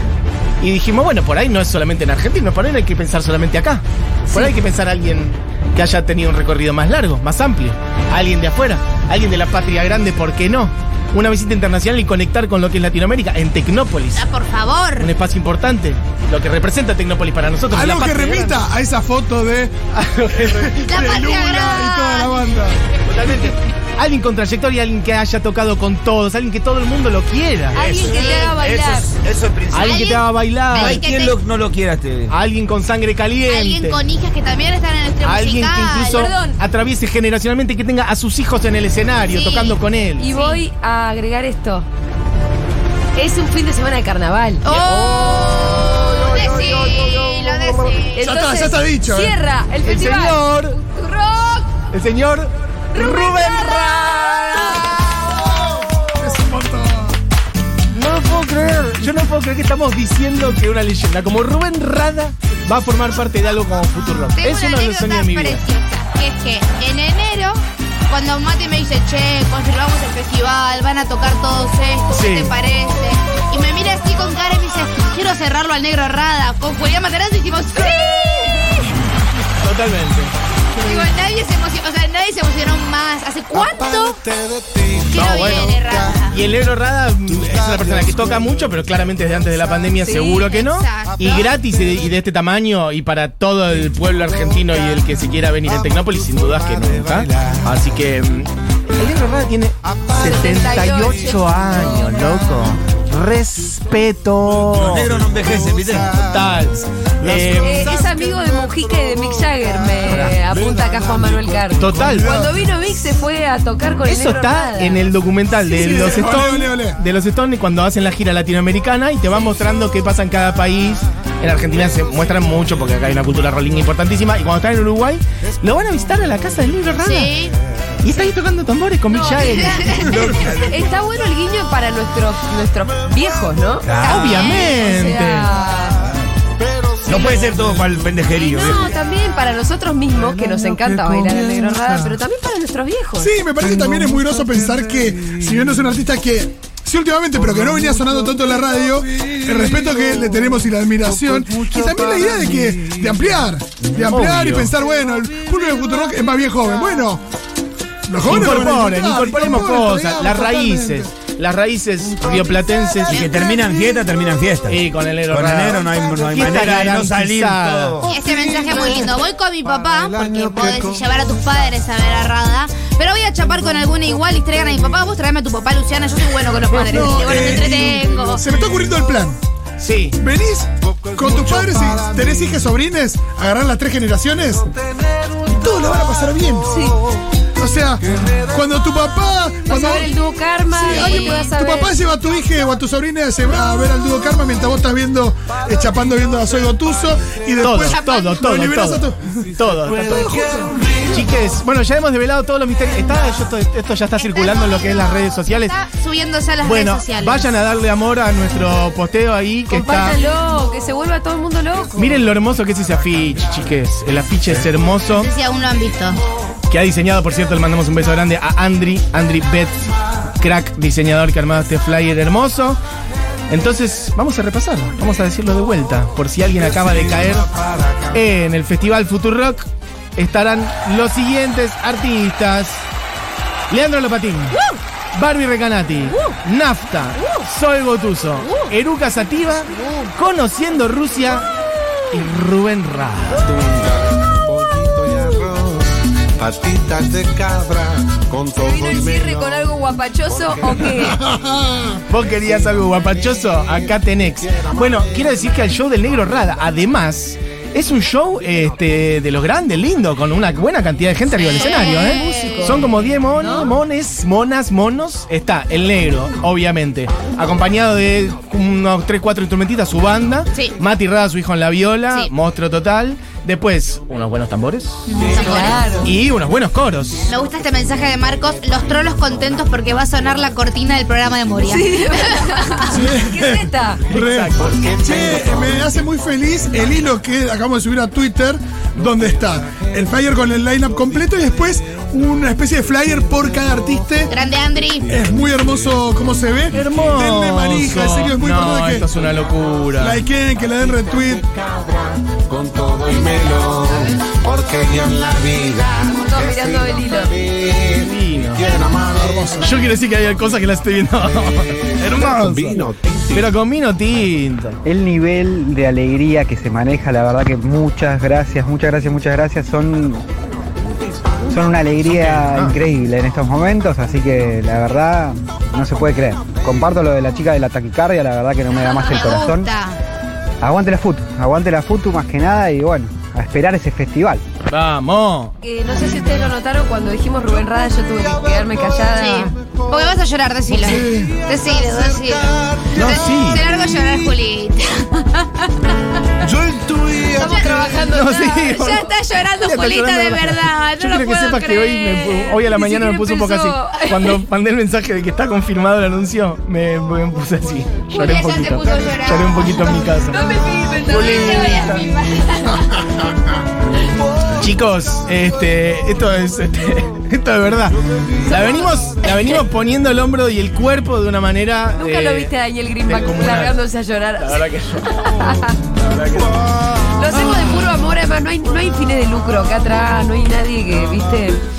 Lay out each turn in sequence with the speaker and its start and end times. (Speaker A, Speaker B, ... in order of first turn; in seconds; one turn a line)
Speaker A: 0.6-14.2
Speaker B: 4.3-4.5
Speaker C: 14.1-15.1
Speaker A: 15.0-18.6
Speaker D: 17.7-19.7
Speaker A: 19.9-20.9
Speaker D: 20.3-22.8
Speaker C: 20.9-22.6
Speaker A: 23.0-28.2
Speaker B: 27.7-29.1
Speaker E: 27.9-30.1
Speaker C: 28.0-28.5
Speaker A: 29.7-31.0
Speaker C: 29.8-31.4
Speaker E: 30.7-32.3
Speaker A: 32.3-34.0
Speaker C: 33.5-36.4
Speaker A: 35.2-40.3
Speaker B: 36.1-36.6
Speaker C: 39.3-39.8
Speaker B: 40.2-41.9
Speaker C: 40.3-40.6
Speaker B: 43.1-44.6
Speaker C: 44.6-48.3
Speaker F: 45.0-47.8
Speaker B: 48.1-51.7
Speaker D: 48.2-49.3
Speaker A: 49.8-50.8
Speaker A: 51.9-55.8
Speaker B: 52.9-54.9
Speaker D: 55.6-57.1
Speaker A: 57.9-65.6
Speaker C: 64.4-78.8
Speaker A: 72.1-72.5
Speaker A: 79.6-80.3
Speaker C: 80.8-84.2
Speaker F: 83.5-86.6
Speaker C: 85.1-86.4
Speaker A: 85.1-105.2
Speaker F: 87.2-89.9
Speaker B: 90.0-90.4
Speaker C: 90.1-91.6
Speaker F: 91.3-92.1
Speaker F: 93.8-97.9
Speaker F: 99.8-102.7
Speaker B: 100.2-102.0
Speaker F: 104.4-112.7
Speaker E: 104.7-106.1
Speaker A: 106.2-107.9
Speaker B: 107.6-115.1
Speaker A: 111.8-112.3
Speaker A: 114.0-127.3
Speaker D: 115.6-117.0
Speaker C: 127.0-127.5
Speaker A: 128.0-130.2
Speaker B: 129.1-136.0
Speaker C: 129.3-130.1
Speaker E: 130.0-130.9
Speaker E: 133.8-134.4
Speaker A: 134.0-135.5
Speaker C: 134.0-134.8
Speaker F: 135.8-138.9
Speaker E: 137.0-138.9
Speaker B: 138.3-143.3
Speaker F: 140.1-142.2
Speaker D: 143.2-157.2
Speaker F: 143.6-145.9
Speaker F: 147.3-153.5
Speaker A: 154.0-154.7
Speaker D: 158.1-161.1
Speaker A: 158.2-163.3
Speaker E: 163.0-168.1
Speaker C: 163.1-163.8
Speaker A: 164.7-168.1
Speaker F: 165.9-166.3
Speaker F: 168.0-171.8
Speaker C: 168.1-178.4
Speaker F: 173.7-174.0
Speaker D: 176.7-179.4
Speaker F: 176.9-179.0
Speaker A: 179.8-180.2
Speaker D: 180.2-184.7
Speaker F: 180.8-182.7
Speaker F: 184.6-186.3
Speaker D: 185.5-186.8
Speaker B: 186.7-187.0
Speaker F: 186.8-187.2
Speaker D: 187.6-190.1
Speaker F: 188.0-189.2
Speaker B: 189.7-191.9
Speaker D: 190.7-199.4
Speaker C: 190.8-191.5
Speaker A: 197.6-200.4
Speaker C: 197.8-198.4
Speaker F: 199.4-201.3
Speaker D: 200.0-200.8
Speaker A: 201.1-205.8
Speaker C: 204.2-207.5
Speaker A: 206.6-210.2
Speaker B: 209.7-212.3
Speaker A: 211.9-215.3
Speaker C: 215.1-216.2
Speaker A: 216.7-222.8
Speaker A: 223.5-227.5
Speaker F: 226.5-228.3
Speaker A: 228.1-232.8
Speaker A: 233.7-234.6
Speaker B: 234.5-234.8
Speaker A: 235.1-241.5
Speaker B: 236.1-236.3
Speaker B: 237.2-237.5
Speaker B: 238.4-238.7
Speaker C: 239.8-240.1
Speaker A: 242.1-243.5
Speaker F: 243.3-255.6
Speaker B: 248.6-251.2
Speaker A: 252.1-277.3
Speaker C: 261.3-262.9
Speaker B: 261.6-263.7
Speaker C: 275.1-276.0
Speaker B: 275.3-276.1
Speaker F: 275.3-276.0
Speaker C: 277.3-282.9
Speaker B: 281.6-284.0
Speaker D: 282.9-294.3
Speaker F: 284.1-286.1
Speaker A: 284.1-284.8
Speaker F: 286.7-286.9
Speaker F: 289.2-289.9
Speaker F: 290.9-291.6
Speaker C: 294.3-295.1
Speaker F: 295.0-296.7
Speaker D: 295.1-299.1
Speaker A: 296.7-300.2
Speaker F: 299.2-299.7
Speaker D: 300.0-301.4
Speaker F: 300.7-309.9
Speaker B: 306.1-307.3
Speaker A: 308.0-308.7
Speaker D: 309.1-309.7
Speaker A: 309.6-314.8
Speaker F: 311.3-313.5
Speaker G: 314.8-320.2
Speaker G: 321.5-329.7
Speaker A: 322.0-322.8
Speaker C: 328.9-330.0
Speaker G: 330.6-334.4
Speaker A: 334.7-335.5
Speaker B: 335.6-339.5
Speaker F: 337.7-340.1
Speaker C: 339.1-345.9
Speaker D: 340.7-341.4
Speaker F: 340.7-344.3
Speaker A: 342.9-343.6
Speaker F: 346.4-348.1
Speaker B: 347.3-348.9
Speaker C: 347.4-352.5
Speaker A: 348.0-360.4
Speaker B: 352.5-354.4
Speaker C: 358.1-360.0
Speaker B: 360.3-362.4
Speaker A: 361.0-362.1
Speaker C: 361.1-363.0
Speaker A: 364.5-372.5
Speaker B: 368.4-369.6
Speaker B: 372.0-375.8
Speaker A: 373.0-373.8
Speaker A: 374.4-377.6
Speaker F: 376.4-377.1
Speaker B: 377.1-381.6